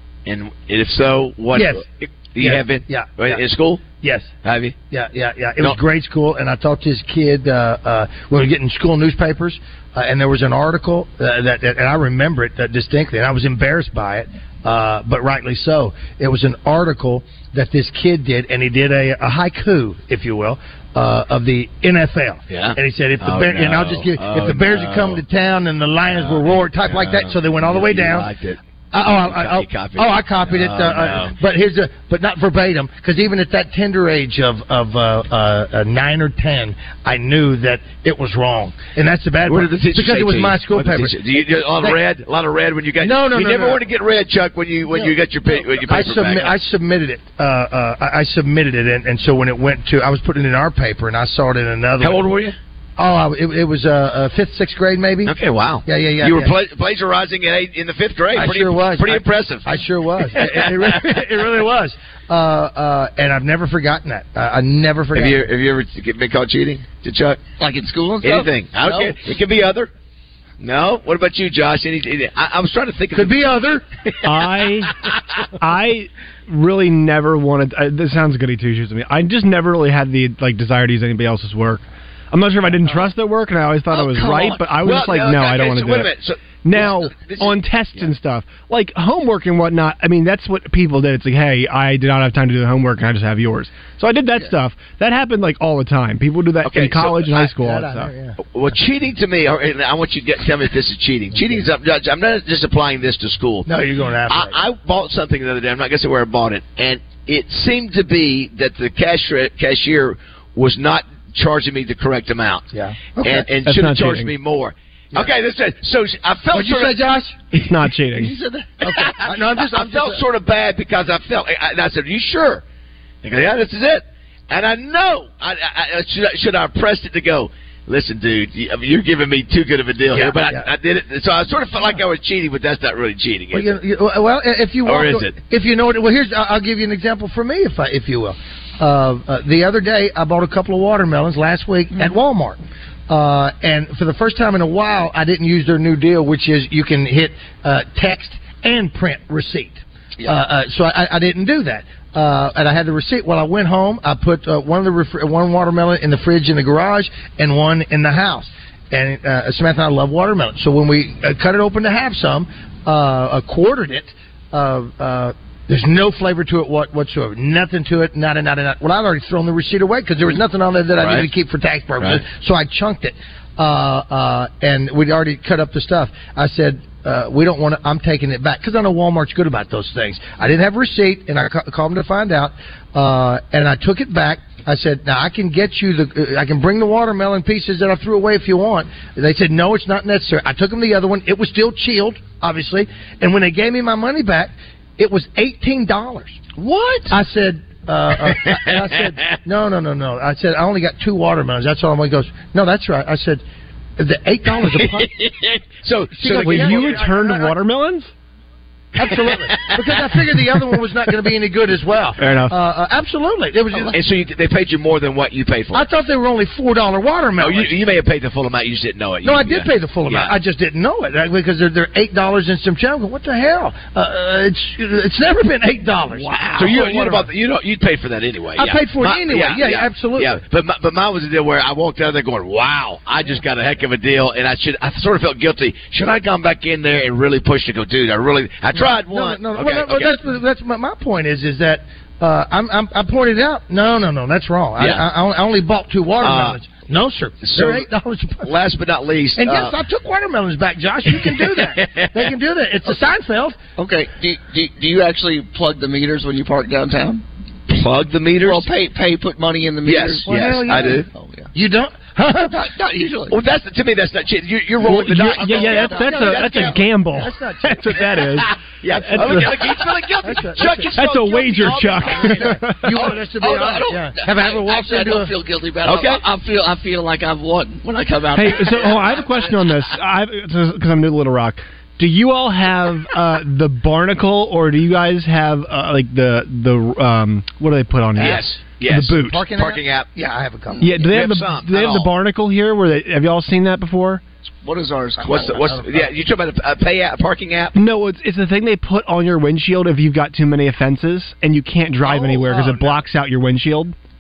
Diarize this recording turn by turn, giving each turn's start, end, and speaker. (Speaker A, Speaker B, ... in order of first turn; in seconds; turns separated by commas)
Speaker A: 0.3-3.8, Speaker B: 1.5-1.8, Speaker B: 2.4-3.4, Speaker B: 4.0-4.3, Speaker A: 4.4-4.8, Speaker B: 4.9-28.3, Speaker A: 22.5-25.2, Speaker A: 26.1-31.4, Speaker B: 28.9-42.0, Speaker A: 39.5-46.5, Speaker B: 43.0-43.8, Speaker B: 44.9-52.3, Speaker A: 52.0-52.6, Speaker B: 53.0-55.3, Speaker A: 55.2-59.7, Speaker B: 55.9-56.5, Speaker B: 58.3-65.5, Speaker A: 60.3-61.4, Speaker A: 65.1-67.4, Speaker C: 67.6-69.2, Speaker A: 68.2-69.9, Speaker A: 70.6-73.5, Speaker B: 73.1-73.8, Speaker A: 74.0-75.1, Speaker D: 74.2-74.9, Speaker D: 75.6-86.1, Speaker C: 83.9-84.7, Speaker A: 84.8-88.1, Speaker D: 86.6-98.1, Speaker A: 96.6-97.3, Speaker B: 97.3-98.4, Speaker A: 98.5-103.7, Speaker B: 101.3-101.7, Speaker B: 103.7-104.6, Speaker A: 104.3-112.7, Speaker B: 112.7-113.5, Speaker A: 113.2-117.0, Speaker D: 113.7-114.3, Speaker B: 116.5-117.4, Speaker D: 117.5-118.3, Speaker C: 118.2-118.8, Speaker B: 118.8-120.2, Speaker A: 118.8-122.6, Speaker A: 123.2-133.8, Speaker B: 130.1-130.7, Speaker B: 133.5-196.4, Speaker A: 134.8-135.3, Speaker A: 171.0-171.3, Speaker A: 196.6-197.1, Speaker B: 197.1-203.4, Speaker A: 198.4-198.9, Speaker B: 204.0-205.1, Speaker A: 204.5-207.0, Speaker B: 206.2-207.5, Speaker D: 206.2-208.1, Speaker B: 209.0-214.0, Speaker A: 209.0-210.0, Speaker D: 212.2-212.6, Speaker A: 213.9-215.9, Speaker B: 215.7-217.7, Speaker A: 217.4-220.3, Speaker B: 219.2-227.3, Speaker A: 226.1-240.2, Speaker B: 228.6-230.4, Speaker B: 238.7-248.5, Speaker A: 244.8-245.0, Speaker A: 246.2-246.6, Speaker A: 247.4-247.9, Speaker A: 248.4-249.8, Speaker B: 249.4-253.7, Speaker A: 251.1-252.1, Speaker C: 253.8-257.2, Speaker A: 257.7-258.7, Speaker C: 258.4-261.5, Speaker A: 259.8-261.1, Speaker B: 260.3-262.6, Speaker C: 262.5-263.4, Speaker A: 263.3-266.9, Speaker D: 264.8-269.5, Speaker C: 265.2-266.2, Speaker B: 266.2-268.0, Speaker A: 268.8-272.6, Speaker B: 269.2-269.5, Speaker B: 270.2-270.9, Speaker D: 270.9-272.9, Speaker B: 272.2-275.3, Speaker C: 273.4-279.8, Speaker A: 275.8-276.2, Speaker D: 278.3-289.4, Speaker A: 288.2-290.1, Speaker B: 289.2-290.8, Speaker D: 290.8-294.2, Speaker A: 290.9-292.1, Speaker C: 294.6-296.0, Speaker A: 295.2-297.8, Speaker D: 297.8-303.9, Speaker B: 302.0-303.0